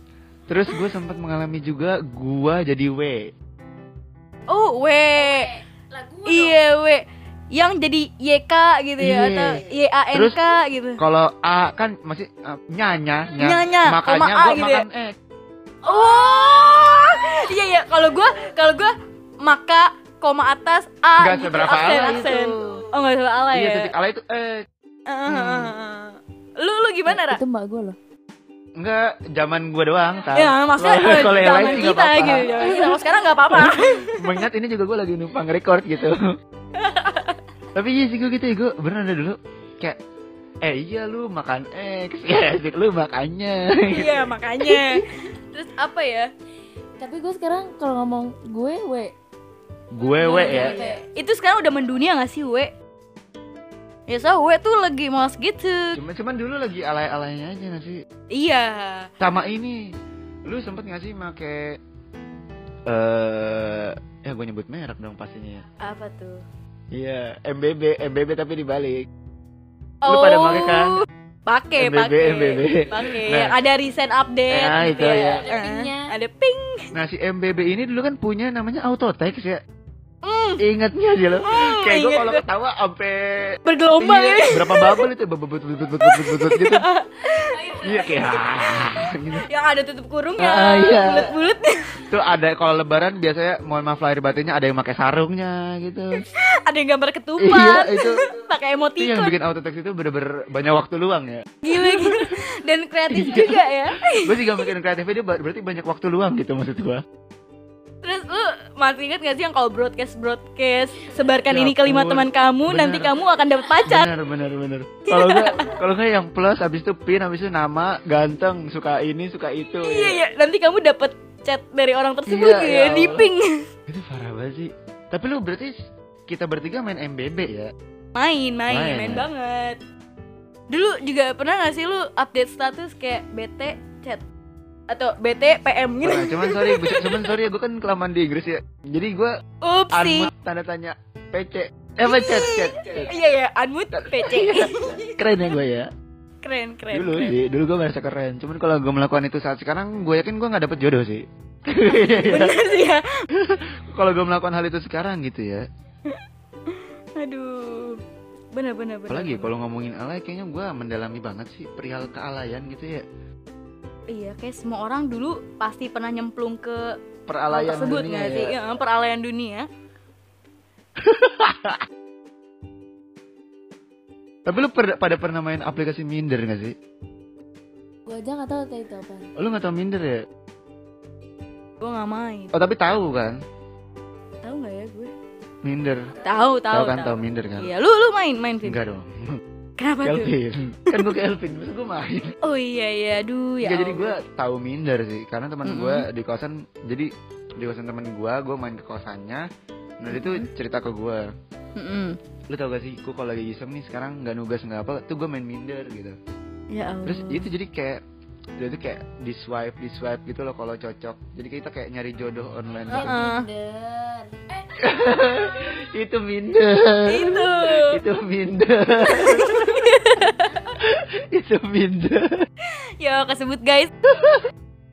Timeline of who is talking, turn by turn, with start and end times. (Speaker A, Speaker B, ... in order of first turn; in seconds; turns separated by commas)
Speaker A: 0.5-3.3, Speaker B: 4.5-5.5, Speaker C: 5.2-6.6, Speaker B: 6.3-11.0, Speaker A: 9.0-9.6, Speaker A: 10.1-10.4, Speaker A: 11.0-15.2, Speaker B: 13.4-14.8, Speaker B: 15.8-23.9, Speaker A: 21.2-22.8, Speaker A: 23.5-24.7, Speaker B: 25.1-27.4, Speaker A: 25.3-25.7, Speaker C: 27.1-28.0, Speaker A: 28.8-33.0, Speaker B: 30.3-34.4, Speaker A: 33.5-36.2, Speaker B: 36.8-37.4, Speaker A: 37.7-40.0, Speaker A: 40.6-44.3, Speaker B: 43.9-46.3, Speaker C: 44.7-45.1, Speaker C: 47.0-49.1, Speaker A: 49.9-50.8, Speaker B: 50.2-52.7, Speaker C: 50.3-51.0, Speaker B: 54.1-56.0, Speaker A: 55.9-58.0, Speaker B: 58.3-59.1, Speaker A: 59.2-59.8, Speaker A: 60.5-61.8, Speaker A: 62.9-65.7, Speaker B: 65.8-66.4, Speaker A: 66.9-69.1, Speaker B: 70.0-76.9, Speaker A: 70.0-71.0, Speaker A: 71.8-73.5, Speaker A: 74.5-75.4, Speaker C: 75.1-76.1, Speaker A: 76.9-79.6, Speaker B: 80.2-80.6, Speaker A: 80.6-86.8, Speaker B: 81.4-82.4, Speaker B: 83.7-85.1, Speaker B: 86.0-88.4, Speaker A: 87.8-89.5, Speaker B: 89.3-92.0, Speaker A: 90.4-91.3, Speaker A: 92.1-96.2, Speaker B: 96.2-99.3, Speaker A: 97.4-98.2, Speaker A: 99.0-102.4, Speaker B: 101.6-104.7, Speaker A: 103.1-107.0, Speaker B: 108.0-114.1, Speaker A: 111.5-113.1, Speaker A: 113.8-120.2, Speaker B: 115.1-115.8, Speaker B: 119.8-123.7, Speaker A: 122.3-123.3, Speaker A: 123.9-125.7, Speaker A: 126.3-127.7, Speaker B: 128.1-129.8, Speaker A: 128.7-129.3, Speaker B: 130.7-134.2, Speaker B: 134.9-137.3, Speaker A: 136.0-139.3, Speaker B: 139.6-140.3, Speaker A: 139.9-143.1, Speaker B: 142.0-145.2, Speaker A: 143.9-145.9, Speaker B: 146.4-147.3, Speaker A: 146.9-152.6, Speaker B: 152.2-153.0, Speaker A: 153.3-155.6, Speaker B: 156.1-158.0, Speaker B: 158.5-159.5, Speaker A: 159.1-163.0, Speaker B: 164.1-166.9, Speaker A: 167.3-168.6, Speaker B: 167.5-169.7, Speaker A: 171.0-171.8, Speaker A: 174.5-176.7, Speaker C: 178.1-179.3, Speaker A: 179.4-180.2, Speaker B: 181.8-182.6, Speaker A: 182.5-183.3, Speaker B: 184.4-185.1, Speaker A: 185.6-186.1, Speaker B: 186.2-188.8, Speaker A: 186.7-187.7, Speaker A: 188.6-189.4, Speaker B: 189.8-190.3, Speaker A: 190.0-192.3, Speaker B: 192.4-194.2, Speaker A: 193.6-199.5, Speaker B: 195.6-196.1, Speaker A: 200.0-201.3, Speaker B: 200.1-200.5, Speaker B: 201.8-202.2, Speaker A: 202.5-206.2, Speaker B: 206.7-207.5, Speaker A: 207.0-208.0, Speaker A: 208.6-213.2, Speaker C: 212.9-214.3, Speaker B: 212.9-213.4, Speaker A: 214.8-219.9, Speaker B: 217.1-218.0, Speaker B: 219.1-220.6, Speaker A: 220.8-222.4, Speaker B: 222.7-223.9, Speaker A: 224.0-224.5